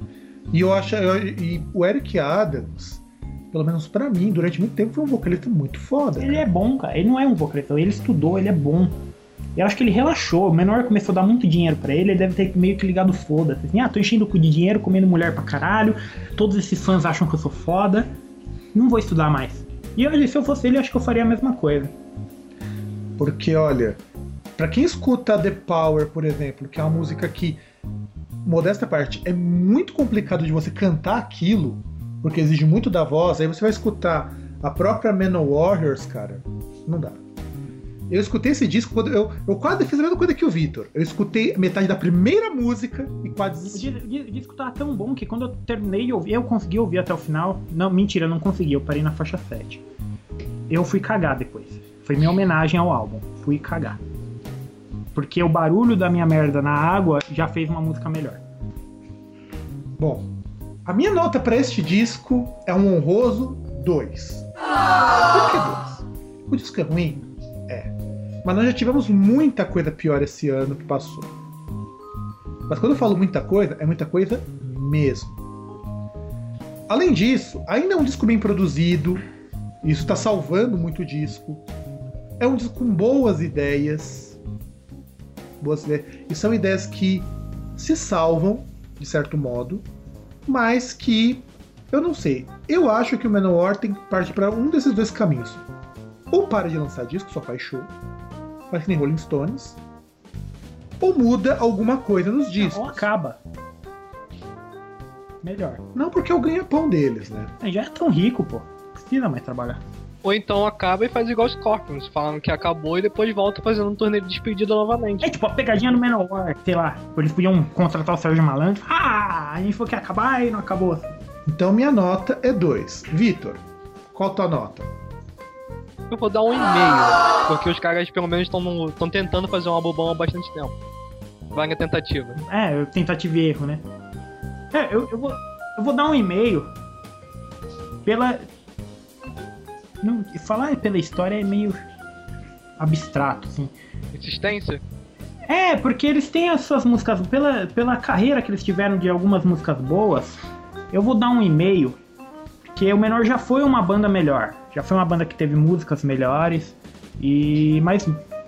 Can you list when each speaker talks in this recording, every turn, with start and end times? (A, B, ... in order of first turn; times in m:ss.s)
0:00.5-0:06.4 A
0:06.2-0:09.0 B
0:09.6-0:18.1 B
0:18.7-0:21.9 B
0:23.2-0:24.0 A
0:24.6-0:27.6 A
0:28.4-0:37.2 A
0:38.1-0:43.9 A
0:43.7-0:49.8 B
0:50.7-0:54.0 B
0:55.1-0:58.4 B
1:00.0-1:00.3 A
1:00.8-1:04.5 A
1:05.3-1:11.3 A
1:12.7-1:15.4 A
1:16.9-1:19.2 A
1:19.8-1:21.6 A
1:22.4-1:24.4 A
1:25.6-1:29.9 A
1:30.5-1:35.7 A
1:36.3-1:37.9 A
1:38.7-1:39.8 A
1:41.0-1:43.1 A
1:42.6-1:43.4 B
1:45.4-1:45.8 B
1:45.9-1:47.5 A
1:47.6-1:49.8 B
1:50.2-1:55.3 C
1:55.2-2:01.2 B
2:01.5-2:04.9 A
2:06.1-2:10.7 C
2:11.5-2:12.4 C
2:12.4-2:13.8 B
2:14.7-2:16.7 B
2:18.0-2:18.5 B
2:20.0-2:21.8 B
2:22.8-2:23.7 B
2:24.1-2:24.8 C
2:25.5-2:30.4 B
2:30.9-2:32.0 B
2:32.8-2:38.2 B